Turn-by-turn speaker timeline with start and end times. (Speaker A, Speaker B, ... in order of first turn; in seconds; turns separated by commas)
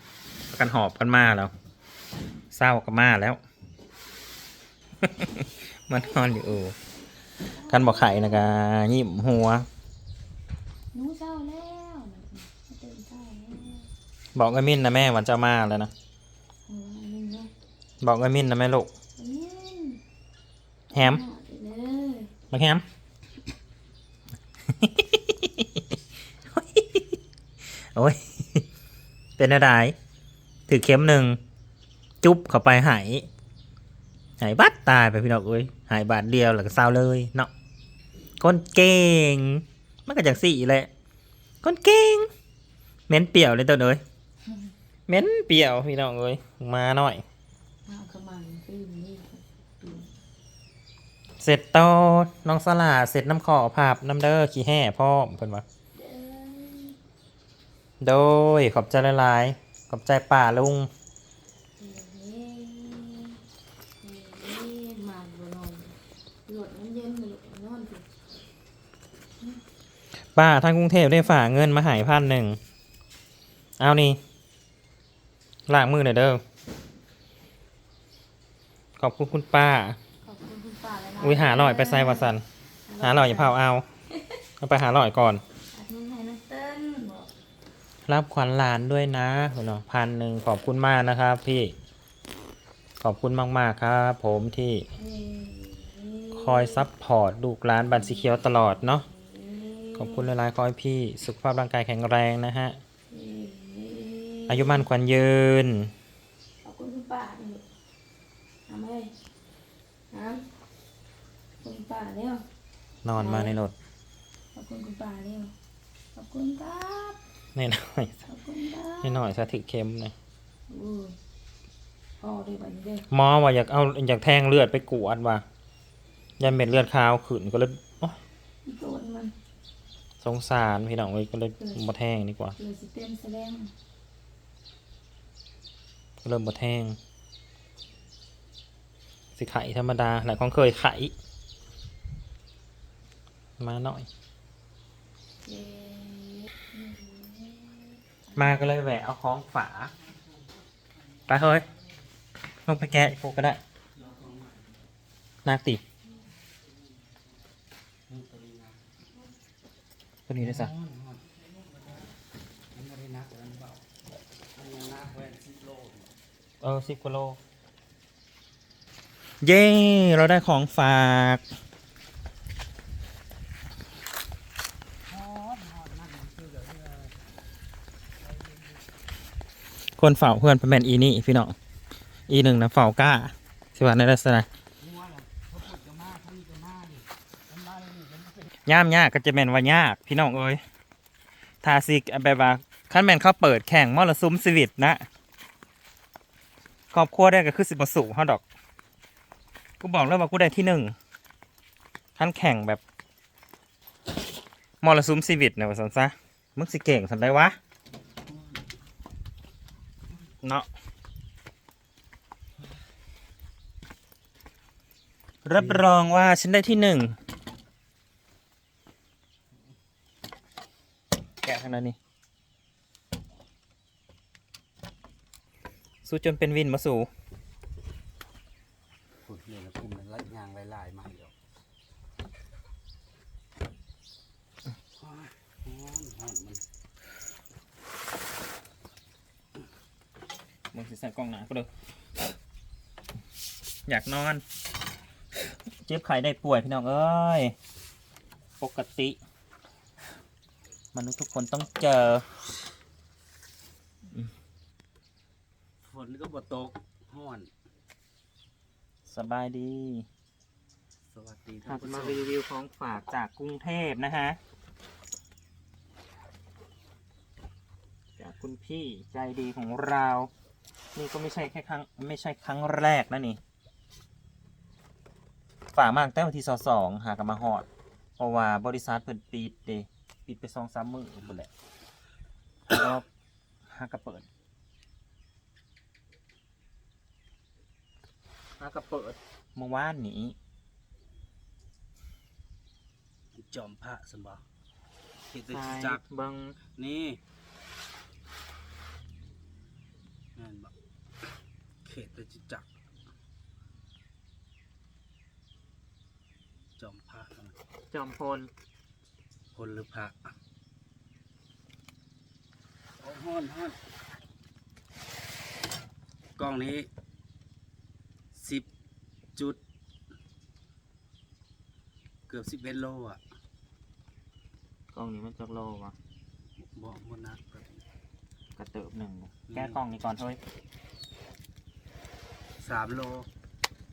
Speaker A: 0.5-1.5, Speaker A: 2.5-3.4, Speaker A: 5.0-6.8, Speaker B: 7.5-8.5, Speaker A: 7.7-9.7, Speaker B: 10.9-13.9, Speaker A: 14.3-15.9, Speaker B: 16.7-17.5, Speaker A: 18.0-18.9, Speaker B: 19.2-20.0, Speaker B: 20.9-22.3, Speaker A: 20.9-21.2, Speaker A: 22.5-22.8, Speaker A: 24.8-25.8, Speaker A: 26.5-27.2, Speaker A: 27.9-28.6, Speaker A: 29.4-29.9, Speaker A: 30.7-31.4, Speaker A: 32.2-33.3, Speaker A: 34.4-37.5, Speaker A: 38.4-40.9, Speaker A: 41.6-42.3, Speaker A: 43.1-44.0, Speaker A: 45.1-47.2, Speaker B: 47.9-50.1, Speaker A: 51.4-55.6, Speaker B: 56.0-57.0, Speaker A: 58.0-60.9, Speaker B: 61.8-63.4, Speaker B: 64.0-68.1, Speaker A: 70.3-72.6, Speaker A: 73.8-74.2, Speaker A: 75.7-76.4, Speaker A: 79.0-80.0, Speaker B: 80.2-82.3, Speaker A: 81.2-82.4, Speaker B: 82.9-83.6, Speaker A: 83.0-83.8, Speaker A: 84.6-85.4, Speaker B: 85.7-87.3, Speaker A: 88.1-91.8, Speaker A: 93.0-94.9, Speaker B: 95.0-96.9, Speaker A: 96.3-99.0, Speaker B: 97.9-100.3, Speaker A: 100.0-102.8, Speaker B: 103.1-104.9, Speaker A: 104.5-105.9, Speaker B: 106.6-107.7, Speaker B: 108.7-109.2, Speaker B: 110.1-110.5, Speaker B: 111.6-112.5, Speaker A: 113.0-113.8, Speaker B: 113.2-113.6, Speaker B: 114.5-115.5, Speaker B: 116.1-117.2, Speaker A: 117.5-118.2, Speaker B: 118.3-119.3, Speaker A: 119.0-120.1, Speaker B: 120.7-121.2, Speaker B: 122.2-123.1, Speaker A: 123.1-125.5, Speaker A: 126.4-128.2, Speaker B: 128.7-129.3, Speaker A: 130.2-132.6, Speaker B: 131.6-131.8, Speaker B: 132.6-133.7, Speaker A: 136.2-137.0, Speaker A: 139.4-141.1, Speaker A: 143.6-144.1, Speaker B: 145.4-148.5, Speaker A: 148.3-149.9, Speaker A: 151.3-151.7, Speaker A: 152.7-153.6, Speaker C: 153.9-154.7, Speaker A: 155.4-155.8, Speaker C: 158.1-159.0, Speaker A: 160.3-160.7, Speaker C: 160.4-162.1, Speaker C: 162.7-163.9, Speaker C: 164.5-166.1, Speaker A: 166.6-167.4, Speaker A: 169.4-171.4, Speaker C: 175.1-177.2, Speaker A: 180.0-181.5, Speaker A: 182.3-184.5, Speaker C: 184.8-188.5, Speaker A: 188.7-190.6, Speaker A: 191.6-195.1, Speaker A: 196.9-198.4, Speaker A: 199.8-200.9, Speaker A: 202.2-202.8, Speaker A: 204.8-207.6, Speaker A: 215.4-217.2, Speaker C: 215.6-215.8, Speaker A: 221.4-222.0, Speaker A: 226.0-227.1, Speaker C: 229.3-231.3, Speaker C: 235.0-236.6, Speaker A: 240.7-241.7, Speaker A: 243.9-244.4, Speaker A: 245.8-247.6, Speaker A: 248.6-249.2, Speaker A: 250.9-252.2, Speaker C: 255.8-257.5, Speaker A: 259.1-260.1, Speaker C: 261.1-262.3, Speaker A: 261.7-264.4, Speaker A: 268.2-270.3, Speaker A: 270.9-273.4, Speaker A: 275.7-277.7, Speaker A: 278.2-281.5, Speaker A: 282.7-283.1, Speaker A: 283.7-284.3, Speaker A: 288.6-290.4, Speaker C: 293.4-294.4, Speaker C: 295.3-296.0, Speaker A: 295.5-296.6, Speaker C: 296.8-297.2, Speaker C: 300.4-300.7, Speaker C: 301.9-302.7, Speaker C: 306.8-307.6, Speaker A: 307.9-308.5, Speaker C: 309.5-310.3, Speaker C: 313.0-313.8, Speaker C: 316.4-316.9, Speaker C: 318.4-318.7, Speaker C: 319.4-319.6, Speaker C: 322.3-323.2, Speaker A: 324.9-325.9, Speaker C: 326.6-327.9, Speaker A: 328.6-330.4, Speaker C: 329.5-329.8, Speaker C: 332.6-333.3